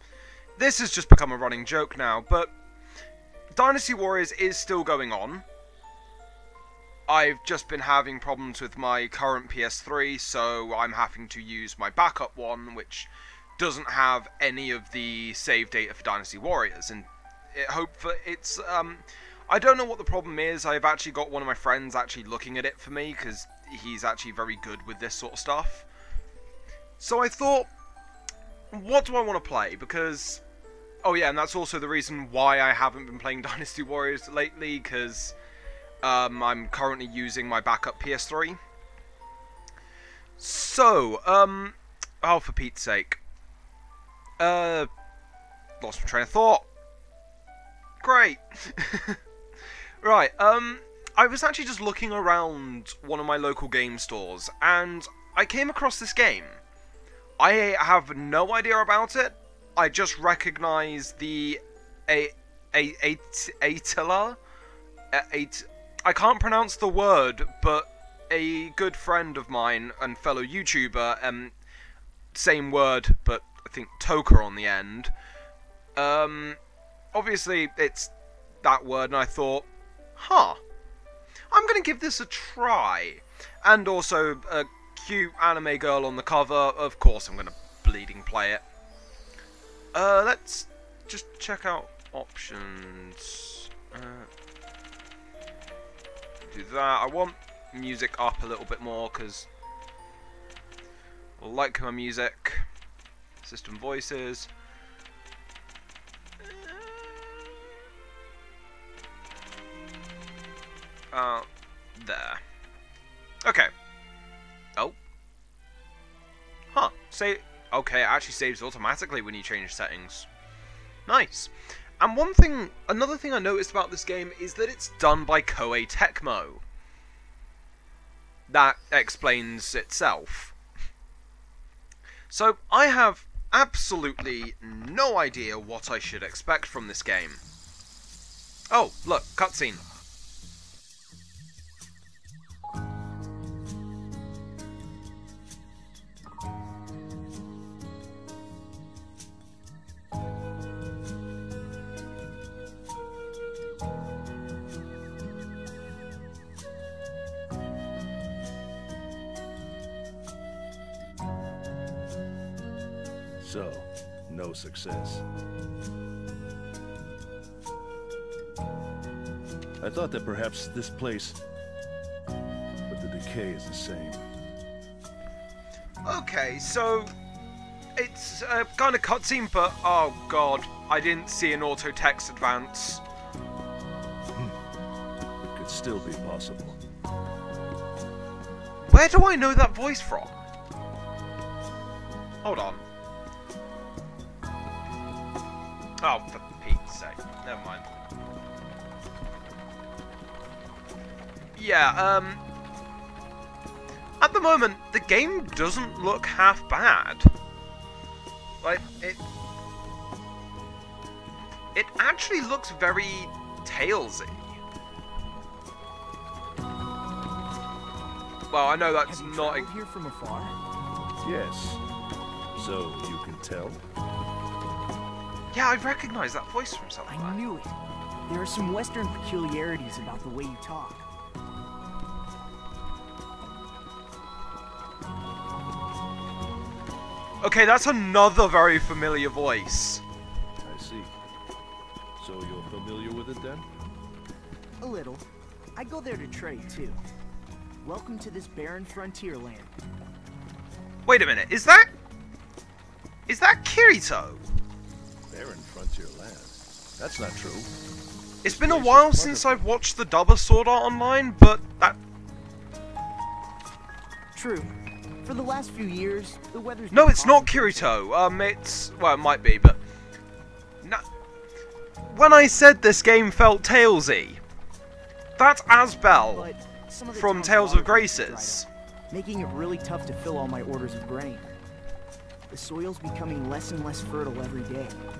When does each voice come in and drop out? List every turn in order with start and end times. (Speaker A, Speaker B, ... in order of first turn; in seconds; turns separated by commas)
Speaker A: 0.6-2.5, Speaker A: 3.5-5.4, Speaker A: 7.1-25.9, Speaker A: 27.0-27.7, Speaker A: 28.7-30.4, Speaker A: 31.0-35.3, Speaker A: 36.0-38.6, Speaker A: 40.4-43.2, Speaker A: 44.4-44.9, Speaker A: 45.8-46.6, Speaker A: 48.0-49.2, Speaker A: 50.0-56.6, Speaker A: 57.4-64.4, Speaker A: 65.1-71.5, Speaker A: 72.3-75.1, Speaker A: 76.0-76.6, Speaker A: 77.1-78.1, Speaker A: 78.6-79.7, Speaker A: 80.2-80.6, Speaker A: 81.5-88.6, Speaker A: 89.9-94.3, Speaker A: 96.5-99.5, Speaker A: 101.4-102.7, Speaker A: 103.4-104.5, Speaker A: 106.4-107.5, Speaker A: 111.1-112.4, Speaker A: 113.4-113.7, Speaker A: 116.7-120.3, Speaker A: 121.0-126.6, Speaker A: 128.5-130.5, Speaker A: 132.3-137.4, Speaker A: 138.7-139.8, Speaker B: 163.4-165.2, Speaker B: 169.8-171.4, Speaker B: 172.9-174.2, Speaker A: 176.0-177.1, Speaker A: 177.9-183.0, Speaker B: 185.4-186.8, Speaker A: 188.9-190.4, Speaker A: 192.4-192.8, Speaker A: 196.0-197.8, Speaker A: 201.6-202.4, Speaker A: 204.2-207.3, Speaker A: 208.6-209.2, Speaker A: 211.7-214.5, Speaker A: 218.5-219.7, Speaker C: 219.1-220.5, Speaker B: 221.2-221.8, Speaker B: 222.5-223.8, Speaker A: 225.5-227.4, Speaker C: 227.1-227.7, Speaker C: 228.3-231.1, Speaker A: 237.4-240.0, Speaker B: 240.6-241.1, Speaker B: 242.2-243.7, Speaker C: 244.8-245.2, Speaker C: 245.8-247.0, Speaker C: 247.8-249.7, Speaker A: 251.1-251.9, Speaker A: 253.3-254.4, Speaker B: 255.3-257.7, Speaker A: 258.4-262.0, Speaker B: 258.4-259.7, Speaker C: 264.3-267.9, Speaker A: 266.9-269.8, Speaker A: 272.1-274.4, Speaker A: 275.4-276.5, Speaker C: 276.3-281.5, Speaker A: 277.1-278.7, Speaker C: 282.5-285.0